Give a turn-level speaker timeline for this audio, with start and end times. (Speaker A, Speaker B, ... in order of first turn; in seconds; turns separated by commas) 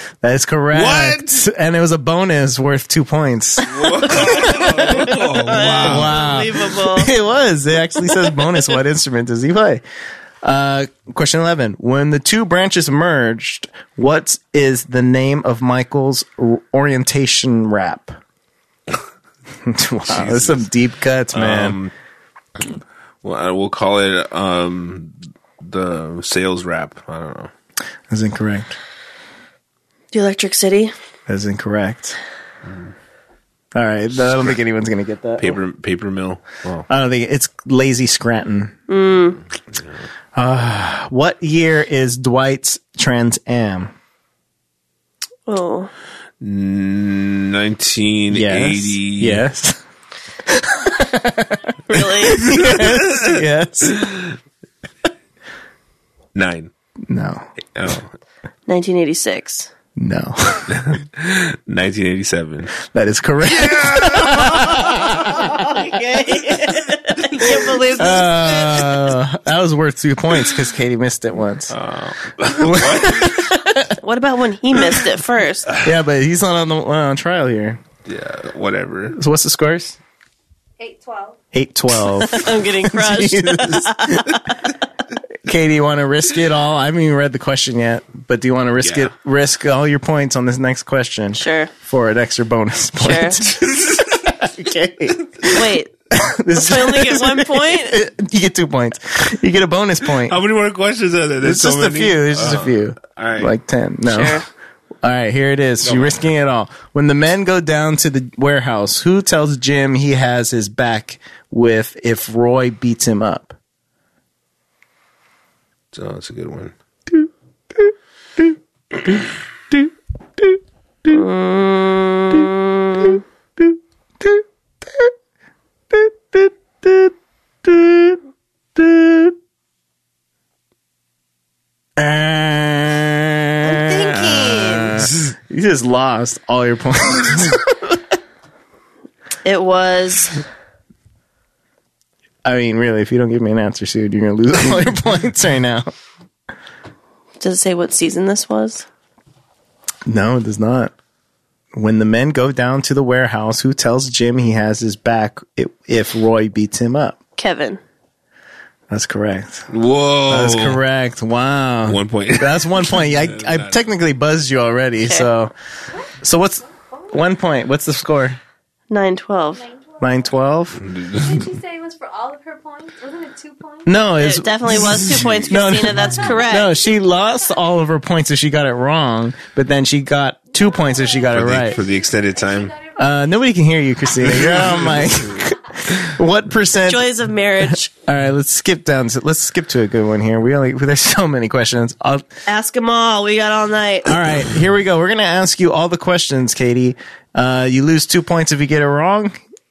Speaker A: 0.2-5.2, Speaker B: 0.7-1.4, Speaker B: 3.6-6.3, Speaker C: 4.1-7.1, Speaker A: 5.8-9.8, Speaker A: 10.4-18.1, Speaker A: 19.6-21.8, Speaker B: 20.1-20.6, Speaker B: 21.3-21.9, Speaker B: 23.2-27.5, Speaker A: 28.1-28.7, Speaker C: 30.1-30.9, Speaker A: 31.3-32.1, Speaker A: 33.7-35.6, Speaker B: 35.4-36.9, Speaker A: 36.9-38.7, Speaker C: 38.9-39.4, Speaker A: 40.3-43.9, Speaker C: 45.5-45.9, Speaker B: 46.4-49.4, Speaker A: 48.3-49.8, Speaker A: 50.5-54.0, Speaker C: 51.9-52.5, Speaker B: 52.4-53.4, Speaker B: 53.9-54.3, Speaker B: 56.3-56.7, Speaker A: 57.1-57.5, Speaker B: 57.7-58.1, Speaker C: 58.7-59.7, Speaker A: 60.0-60.8, Speaker B: 60.7-62.8, Speaker A: 62.8-65.6, Speaker B: 63.4-65.4, Speaker C: 64.6-68.9, Speaker A: 67.5-71.8, Speaker B: 71.7-73.5, Speaker A: 72.5-73.9, Speaker C: 73.9-75.7, Speaker A: 75.8-77.8, Speaker B: 78.0-79.2, Speaker A: 79.1-80.0, Speaker D: 80.8-81.4, Speaker A: 81.5-84.4, Speaker C: 82.1-84.5, Speaker A: 85.4-100.4, Speaker B: 88.8-89.1, Speaker C: 91.3-91.7, Speaker C: 93.0-93.4, Speaker C: 95.5-95.9, Speaker C: 96.5-98.0, Speaker B: 100.2-103.5, Speaker A: 101.4-104.4, Speaker C: 104.0-104.5, Speaker A: 105.0-113.5, Speaker B: 105.8-106.2, Speaker B: 115.9-116.7, Speaker A: 117.1-118.5, Speaker A: 119.7-121.2, Speaker C: 121.1-123.2, Speaker A: 123.6-125.1, Speaker A: 125.9-128.2, Speaker A: 128.7-129.3, Speaker A: 132.0-138.0, Speaker C: 133.6-135.1, Speaker C: 139.4-140.4, Speaker A: 142.4-145.9, Speaker C: 147.4-148.8, Speaker A: 150.1-150.9, Speaker A: 151.7-157.2, Speaker C: 157.4-157.8, Speaker A: 158.9-159.7, Speaker B: 159.7-160.8, Speaker A: 160.3-165.5, Speaker B: 161.8-163.7, Speaker C: 165.0-165.3, Speaker A: 166.2-168.4, Speaker D: 166.8-167.2, Speaker C: 168.9-169.6, Speaker D: 169.5-170.4, Speaker A: 170.0-170.8, Speaker B: 170.8-171.5, Speaker D: 171.1-174.1, Speaker A: 173.8-181.8, Speaker C: 174.2-176.7, Speaker D: 175.6-177.6, Speaker D: 180.6-183.1, Speaker B: 181.3-182.7, Speaker A: 182.9-187.1, Speaker B: 184.2-185.4, Speaker C: 186.8-187.9, Speaker A: 187.7-192.2, Speaker C: 192.4-194.2, Speaker A: 194.1-199.3